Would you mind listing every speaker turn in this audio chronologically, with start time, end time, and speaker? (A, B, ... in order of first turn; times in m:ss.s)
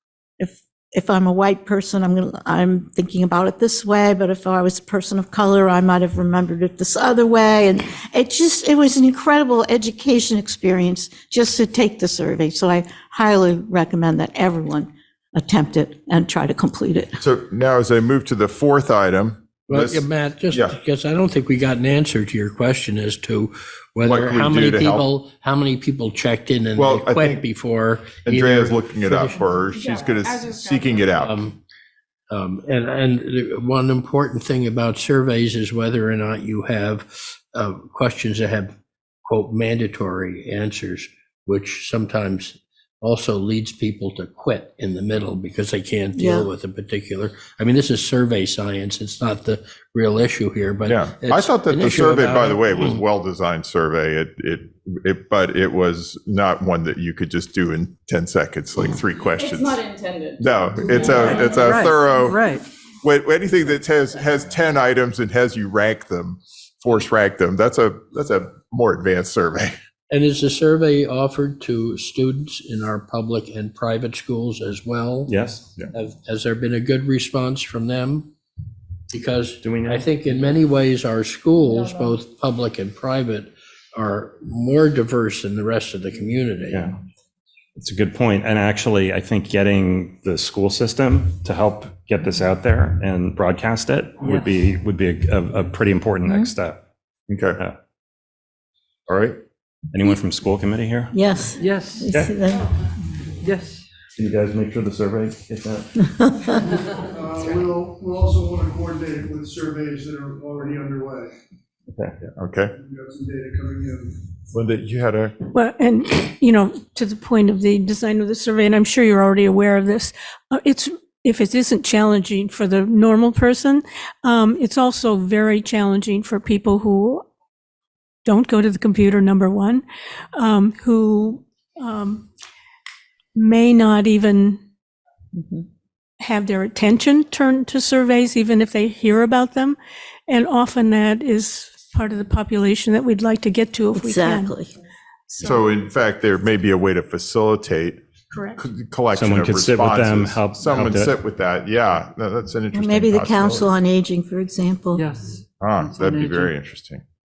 0:00.4-0:17.2 A
0:17.2-0:20.8 B
0:19.7-0:29.6 C
0:24.0-0:25.1 B
0:26.7-0:27.5 B
0:28.2-0:31.4 B
0:29.7-0:31.1 D
0:31.2-0:31.6 C
0:32.3-0:38.7 C
0:39.2-0:53.0 C
0:46.2-0:46.5 A
0:50.8-0:59.8 B
0:59.3-1:01.5 D
1:00.4-1:02.5 B
1:01.0-1:02.6 E
1:03.0-1:09.7 B
1:10.1-1:15.4 C
1:15.3-1:15.6 F
1:15.9-1:18.3 C
1:19.1-1:26.9 C
1:19.6-1:20.1 F
1:27.8-1:36.8 F
1:37.3-1:37.6 B
1:39.1-1:39.4 B
1:39.9-1:41.1 F
1:41.1-1:42.8 A
1:41.6-1:42.1 E
1:42.1-1:42.3 F
1:43.4-1:43.8 E
1:44.2-1:45.9 F
1:46.1-1:46.7 A
1:47.0-1:51.3 G
1:52.4-1:52.8 B
1:52.8-1:54.2 G
1:54.5-1:55.3 B
1:55.5-2:07.2 H
2:08.2-2:09.8 H
2:10.4-2:12.3 H
2:13.4-2:14.6 H
2:15.4-2:15.6 A
2:16.2-2:19.8 H
2:20.3-2:24.6 H
2:23.9-2:24.7 A
2:25.3-2:25.6 H
2:25.4-2:28.0 B
2:28.3-2:28.6 H
2:28.6-2:33.7 B
2:29.1-2:31.2 F
2:32.7-2:35.0 A
2:35.0-2:36.5 E
2:35.6-2:37.0 B